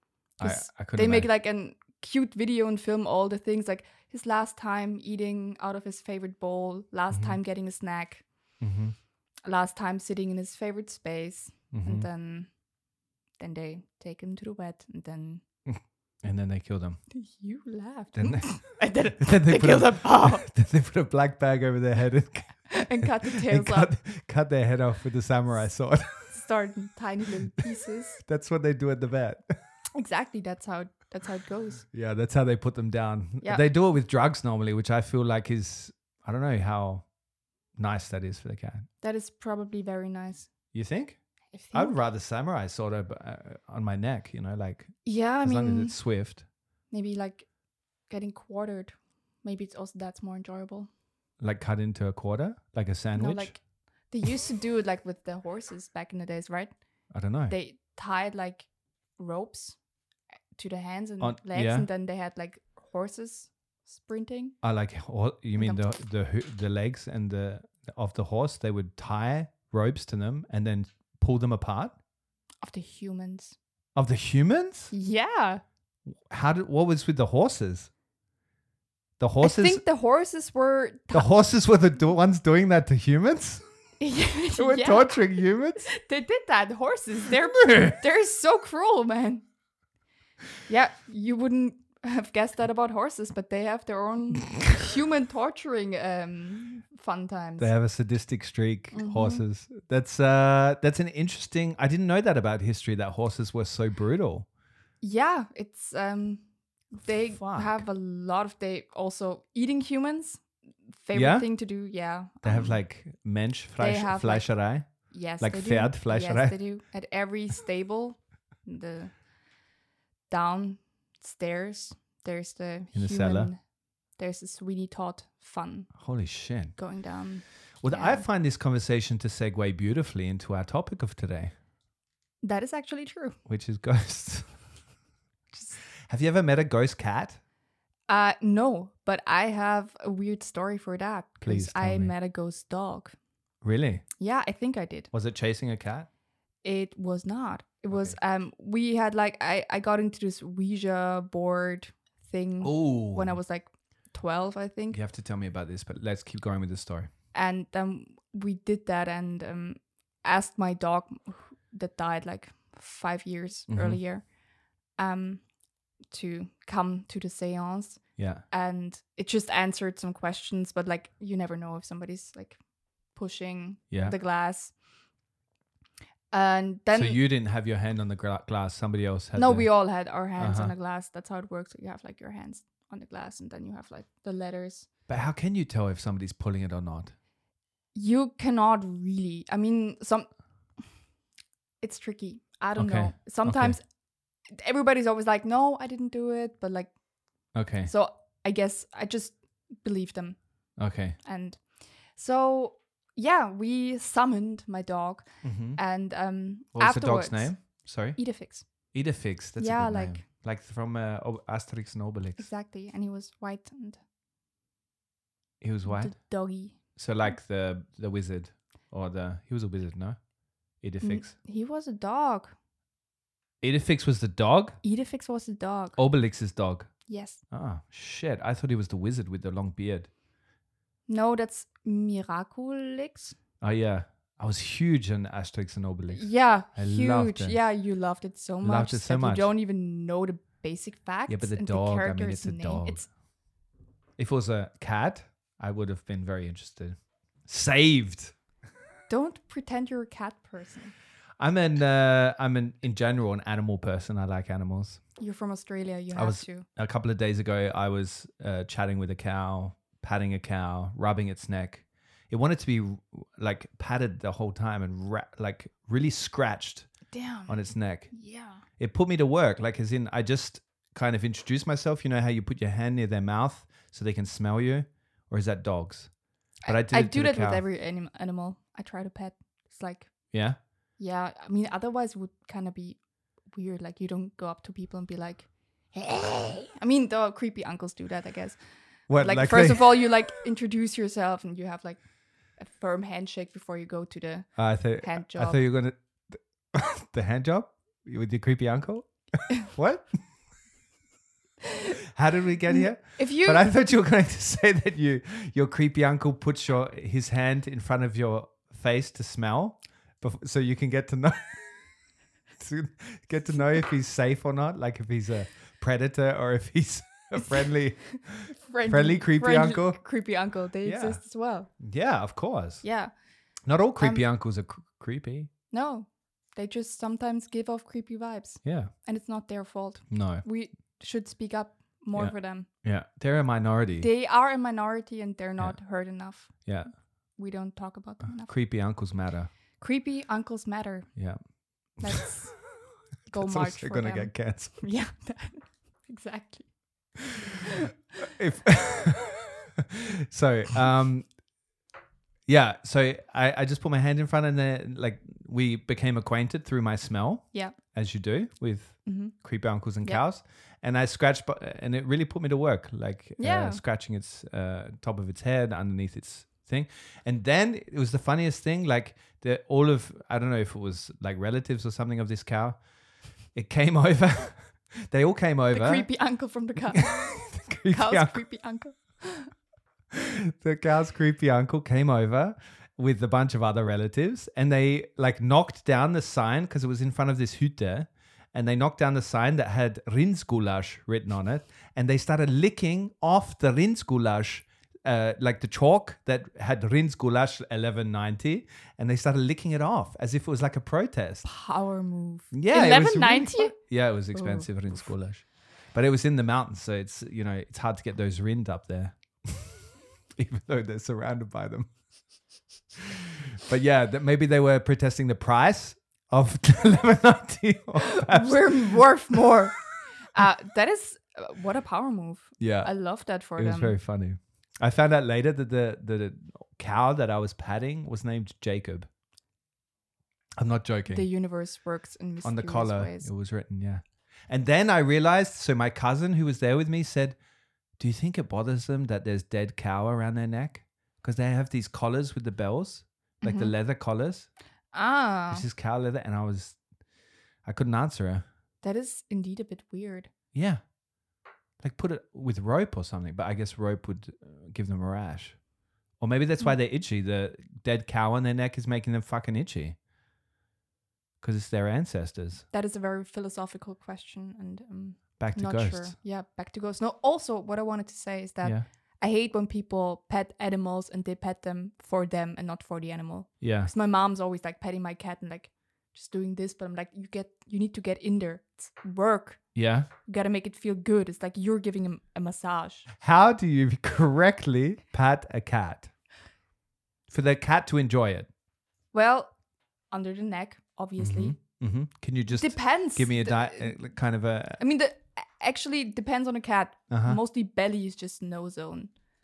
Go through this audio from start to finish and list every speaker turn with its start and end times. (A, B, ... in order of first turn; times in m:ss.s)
0:00.4-0:01.3 A
0:00.4-0:08.2 B
0:07.1-0:07.4 A
0:08.6-0:09.0 A
0:09.4-0:12.5 B
0:11.7-0:12.1 A
0:13.4-0:15.4 B
0:15.7-0:17.0 A
0:17.1-0:20.5 B
0:18.2-0:26.3 A
0:22.7-0:23.9 B
0:26.3-0:28.2 B
0:28.2-0:29.4 A
0:30.0-0:31.8 B
0:31.9-0:37.1 A
0:37.8-0:38.9 A
0:39.0-0:40.5 B
0:40.7-0:41.2 A
0:41.5-0:42.0 B
0:41.7-0:46.4 A
0:45.0-0:46.0 B
0:46.9-0:47.5 B
0:48.1-0:50.9 B
0:51.4-0:53.6 A
0:53.2-0:56.8 B
0:57.1-0:57.6 A
0:57.5-0:59.8 B
1:00.6-1:04.6 B
1:01.2-1:01.9 A
1:04.6-1:12.0 A
1:05.6-1:05.9 B
1:12.6-1:13.6 B
1:14.0-1:14.9 A
1:14.9-1:15.6 B
1:16.3-1:17.9 A
1:19.2-1:19.8 A
1:19.4-1:21.3 B
1:21.1-1:23.6 A
1:24.0-1:29.4 B
1:24.6-1:25.9 A
1:30.7-1:37.7 B
1:37.6-1:44.5 A
1:38.9-1:39.4 B
1:45.0-1:52.8 B
1:47.3-1:47.8 A
1:51.1-1:51.5 A
1:52.4-1:56.6 A
1:53.8-1:59.1 B
2:00.3-2:03.6 B
2:03.0-2:03.5 A
2:04.2-2:05.9 B
2:06.0-2:06.8 A
2:06.8-2:08.2 B
2:07.8-2:11.5 A
2:12.4-2:13.4 B
2:13.5-2:14.5 A
2:15.5-2:15.8 B
2:16.0-2:17.4 A
2:18.1-2:23.2 B
2:21.4-2:22.1 A
2:23.6-2:24.0 A
2:24.2-2:25.1 B
2:25.1-2:26.1 A
2:26.6-2:35.0 B
2:27.9-2:28.2 A
2:32.6-2:33.4 A
2:34.9-2:37.1 A
2:37.3-2:44.3 B
2:43.7-2:44.0 A
2:45.0-2:45.4 B
2:46.1-2:52.6 B
2:48.2-2:48.4 A
2:53.1-2:54.7 B
2:56.3-2:57.2 B
2:56.9-3:00.7 A
2:59.4-3:04.9 B
3:05.1-3:07.2 A
3:08.0-3:10.3 B
3:11.8-3:13.8 B
3:12.8-3:13.8 A
3:14.5-3:16.9 B
3:17.5-3:17.9 A
3:17.9-3:20.4 B
3:20.8-3:21.2 A
3:21.2-3:21.6 B
3:22.1-3:28.6 B
3:25.4-3:25.8 A
3:26.7-3:28.2 A
3:28.9-3:32.5 A
3:29.6-3:30.2 B
3:32.4-3:34.0 B
3:35.6-3:36.2 A
3:35.8-3:36.8 B
3:36.8-3:40.2 A
3:40.8-3:41.3 A
3:41.0-3:42.6 B
3:43.6-3:44.8 A
3:44.8-3:46.0 B
3:46.0-3:46.9 A
3:47.1-3:47.4 B
3:47.5-3:50.1 A
3:51.1-3:53.4 B
3:53.6-3:57.6 A
3:56.1-4:03.1 B
3:58.6-3:59.5 A
4:01.3-4:03.1 A
4:04.2-4:08.4 A
4:09.1-4:10.9 B
4:11.4-4:15.0 A
4:15.2-4:16.7 B
4:16.2-4:26.9 A
4:27.1-4:27.6 B
4:27.5-4:28.1 A
4:28.1-4:28.6 B
4:28.8-4:36.1 A
4:36.6-4:40.3 B
4:36.6-4:37.6 A
4:40.3-4:40.6 A
4:41.0-4:52.0 B
4:49.1-4:50.1 A
4:52.6-4:55.6 B
4:54.6-5:00.1 A
5:02.1-5:11.7 A
5:02.7-5:03.7 B
5:12.6-5:20.1 A
5:18.6-5:21.7 B
5:20.8-5:21.2 A
5:21.8-5:22.9 A
5:22.8-5:23.1 B
5:23.7-5:25.5 A
5:24.0-5:24.2 B
5:25.7-5:32.7 B
5:28.6-5:28.9 A
5:30.1-5:30.4 A
5:32.1-5:34.1 A
5:34.0-5:36.7 B
5:36.5-5:36.9 A
5:37.4-5:38.6 B
5:38.2-5:39.5 A
5:39.8-5:41.1 B
5:42.0-5:42.3 A
5:42.0-5:42.8 B
5:43.3-5:44.8 A
5:43.3-5:47.7 B
5:48.2-5:49.5 A
5:50.2-5:51.3 A
5:52.5-6:12.8 A
5:59.1-5:59.3 B
6:03.4-6:03.8 B
6:13.5-6:16.1 A
6:15.7-6:19.5 B
6:16.9-6:18.4 A
6:20.1-6:41.4 A
6:41.4-6:43.8 B
6:42.5-6:49.8 A
6:44.3-6:44.7 B
6:50.4-6:51.9 A
6:53.0-6:59.5 A
6:58.0-6:59.8 B
7:00.3-7:04.0 B
7:02.6-7:02.9 A
7:03.6-7:09.1 A
7:10.6-7:11.3 A
7:11.1-7:13.3 B
7:12.4-7:17.4 A
7:18.0-7:24.5 A
7:23.4-7:23.7 B
7:24.9-7:25.6 B
7:25.5-7:26.8 A
7:27.6-7:28.5 A
7:28.8-7:30.3 B
7:30.5-7:30.8 A
7:31.8-7:35.6 A
7:36.2-7:40.0 A
7:41.4-7:42.6 A
7:42.7-7:59.7 B
7:45.4-7:46.2 A
7:53.6-7:53.9 A
7:59.8-8:00.1 A
8:00.2-8:03.1 B
8:03.2-8:06.1 A
8:07.3-8:08.5 A
8:09.1-8:09.5 B
8:10.1-8:11.6 B
8:11.2-8:14.8 A
8:12.5-8:14.0 B
8:14.8-8:19.1 B
8:17.1-8:17.4 A